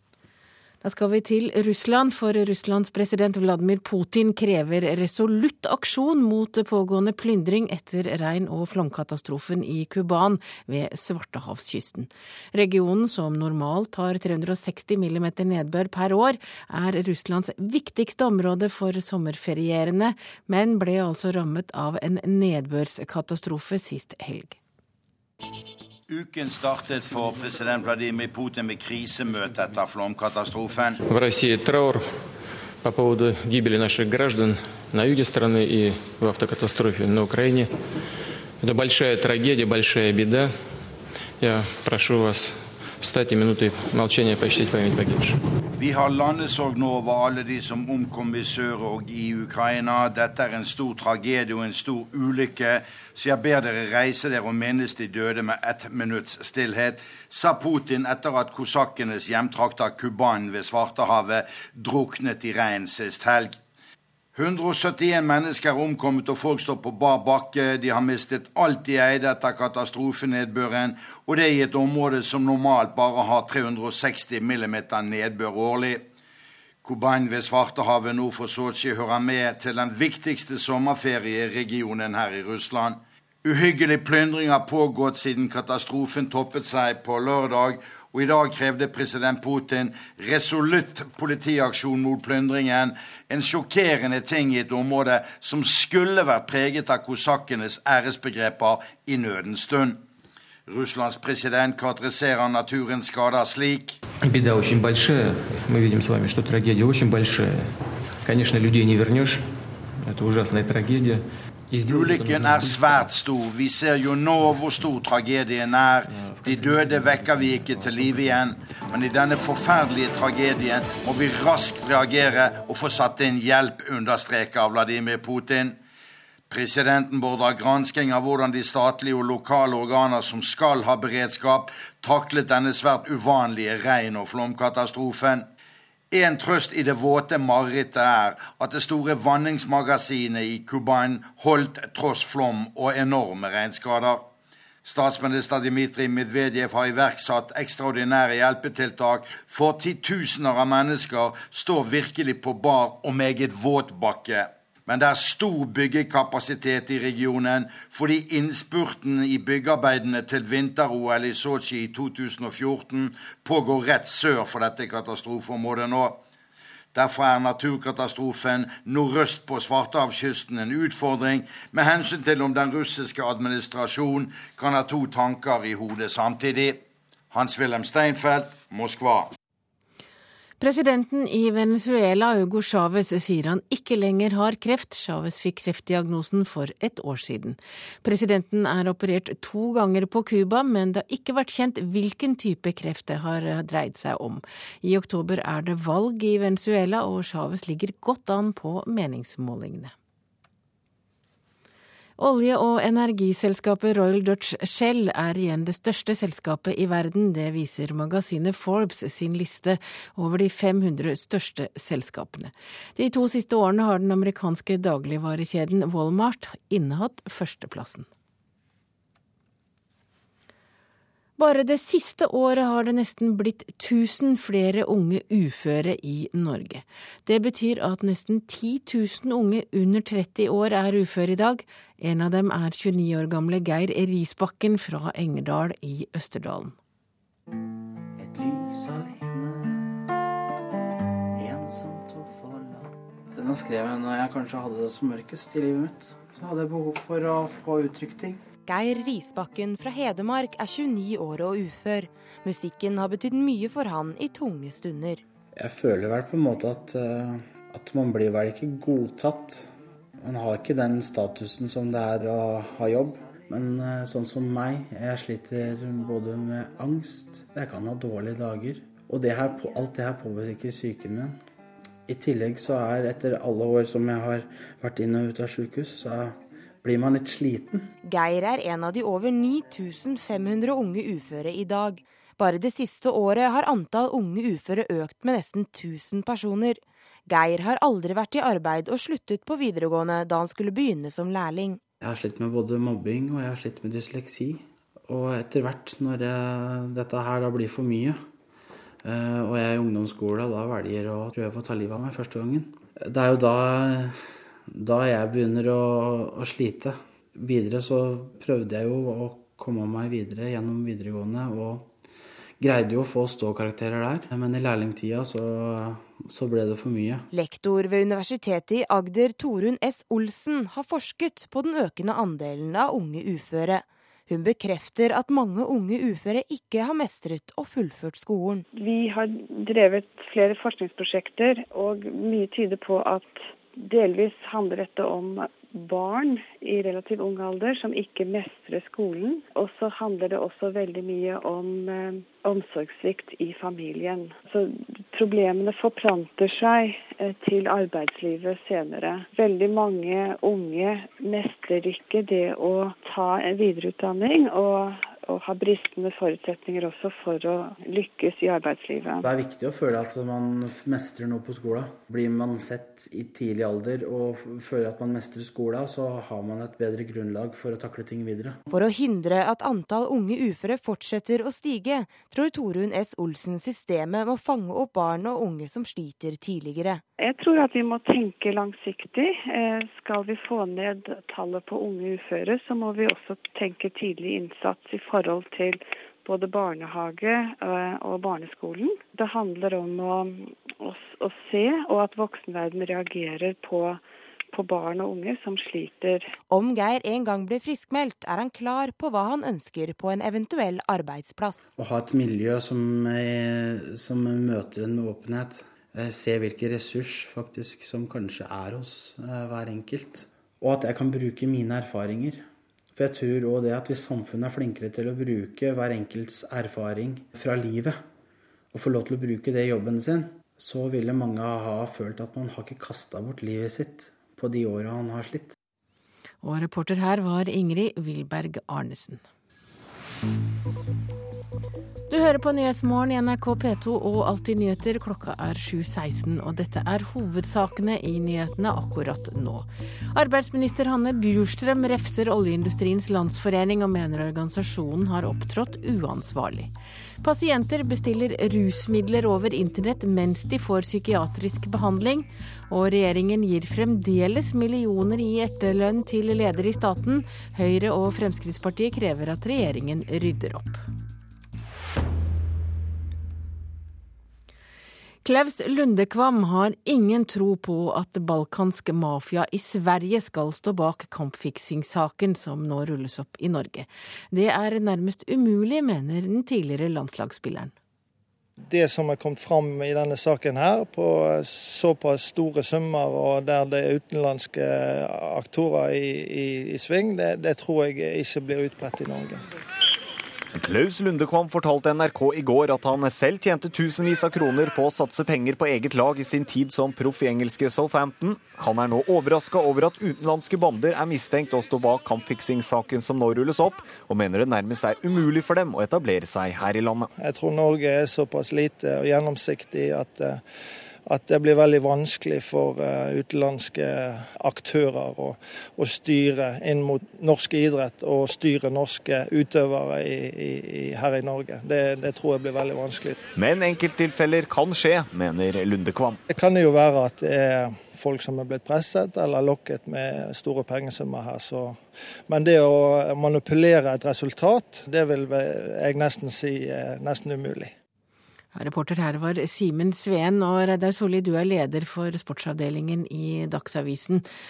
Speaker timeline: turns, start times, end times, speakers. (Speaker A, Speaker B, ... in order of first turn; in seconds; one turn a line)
Speaker A: 0.8-24.6
Speaker B: 26.1-31.0
Speaker C: 31.0-32.2
Speaker C: 32.8-37.7
Speaker C: 38.6-40.7
Speaker C: 41.4-45.4
Speaker B: 45.8-63.6
Speaker B: 64.3-76.0
Speaker B: 76.8-100.0
Speaker B: 100.7-104.0
Speaker C: 104.2-113.1
Speaker B: 111.8-125.8
Speaker C: 116.1-117.1
Speaker B: 126.5-135.5
Speaker B: 136.1-144.2
Speaker B: 144.8-166.2
Speaker B: 166.9-176.8
Speaker B: 177.3-179.3
Speaker A: 180.6-199.9
Speaker A: 202.2-218.1
Speaker A: 221.4-236.8
Speaker D: 238.2-239.9
Speaker D: 241.3-248.4
Speaker E: 248.7-255.2
Speaker D: 255.5-271.4
Speaker D: 272.1-277.9
Speaker E: 278.0-291.8
Speaker D: 292.0-298.2
Speaker D: 299.0-311.9
Speaker D: 312.6-317.3
Speaker E: 317.3-328.6
Speaker F: 328.7-359.2
Speaker D: 359.2-368.6
Speaker E: 368.7-377.0
Speaker F: 377.2-394.0
Speaker F: 394.5-396.3
Speaker E: 396.5-401.7
Speaker D: 401.8-418.0
Speaker D: 418.7-425.5
Speaker A: 426.4-429.2
Speaker A: 432.1-446.7
Speaker A: 447.2-460.8
Speaker A: 465.2-477.7
Speaker G: 478.7-489.4
Speaker H: 490.5-507.1
Speaker G: 507.2-510.4
Speaker G: 511.1-523.1
Speaker H: 523.4-526.2
Speaker G: 526.3-537.7
Speaker A: 538.5-544.2